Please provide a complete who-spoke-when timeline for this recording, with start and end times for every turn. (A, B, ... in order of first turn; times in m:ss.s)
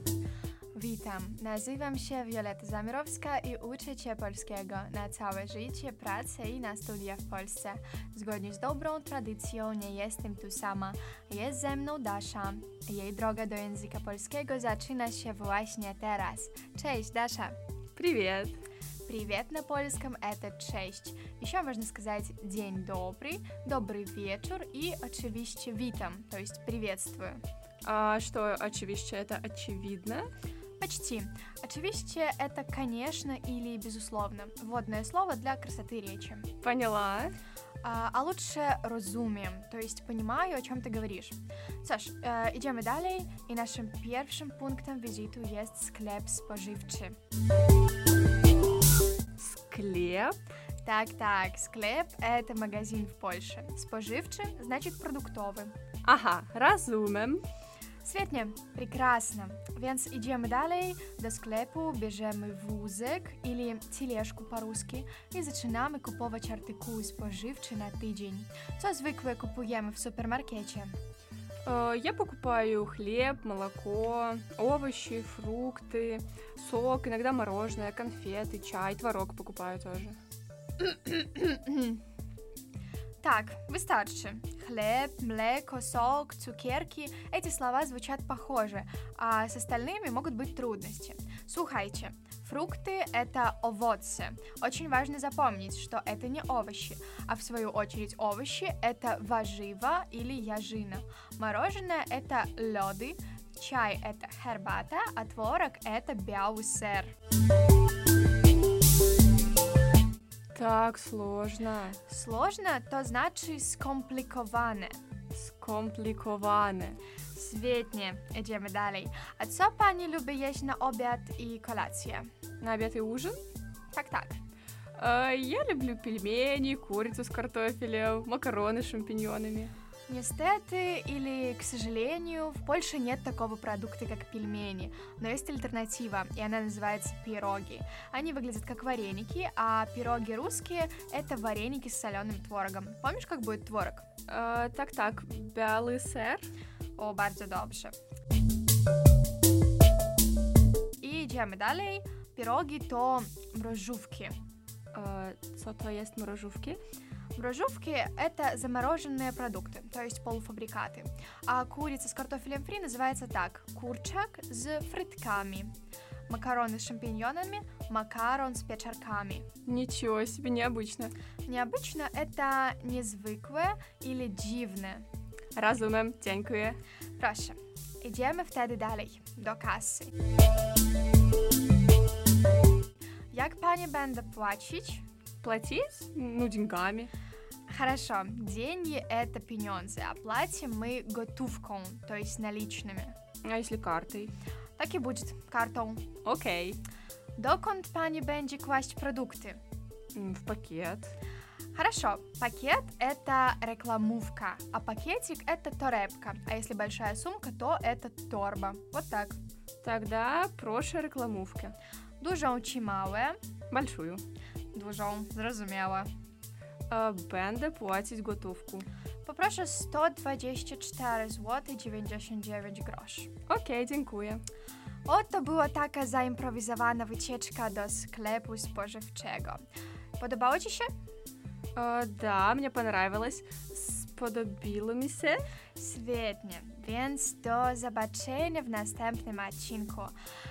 0:00.7-0:17.6 A
0:18.0-0:18.6 B
0:19.0-0:27.4 A
0:27.8-0:30.3 B
0:30.8-0:36.5 A
0:36.6-0:37.4 B
0:37.8-0:47.1 A
0:49.4-0:50.3 B
0:50.8-0:55.7 A
0:56.0-0:57.4 B
0:58.0-1:11.0 A
1:11.6-1:20.2 B
1:20.8-1:22.0 A
1:23.2-1:47.1 A
1:50.5-1:52.0 B
1:52.1-1:55.0 A
1:55.3-1:57.0 B
1:57.3-2:02.3 A
2:02.6-2:03.4 B
2:03.9-2:04.4 A
2:05.0-2:09.7 B
2:10.1-2:24.1 A
2:24.3-2:26.5 B
2:27.0-2:27.9 A
2:31.0-2:34.3 A
2:34.9-2:36.8 B
2:37.3-2:45.7 A
2:46.3-2:49.5 A
2:49.6-2:51.1 B
2:51.4-2:55.0 A
2:55.6-2:56.8 B
2:57.2-3:00.1 A
3:03.3-3:05.0 A
3:05.4-3:07.1 B
3:07.7-3:13.2 A
3:13.4-3:14.3 B
3:14.8-3:16.1 A
3:16.2-3:16.8 B
3:17.4-3:19.6 A
3:20.1-3:21.1 B
3:21.7-3:29.4 A
3:29.8-3:31.7 B
3:32.2-3:33.4 A
3:33.7-3:34.2 B
3:34.7-3:36.1 A
3:36.9-3:38.9 B
3:39.2-3:43.3 A
3:43.5-3:44.4 B
3:45.0-3:49.6 A
3:50.2-3:50.9 A
3:51.8-3:55.4 B
3:55.8-4:00.2 A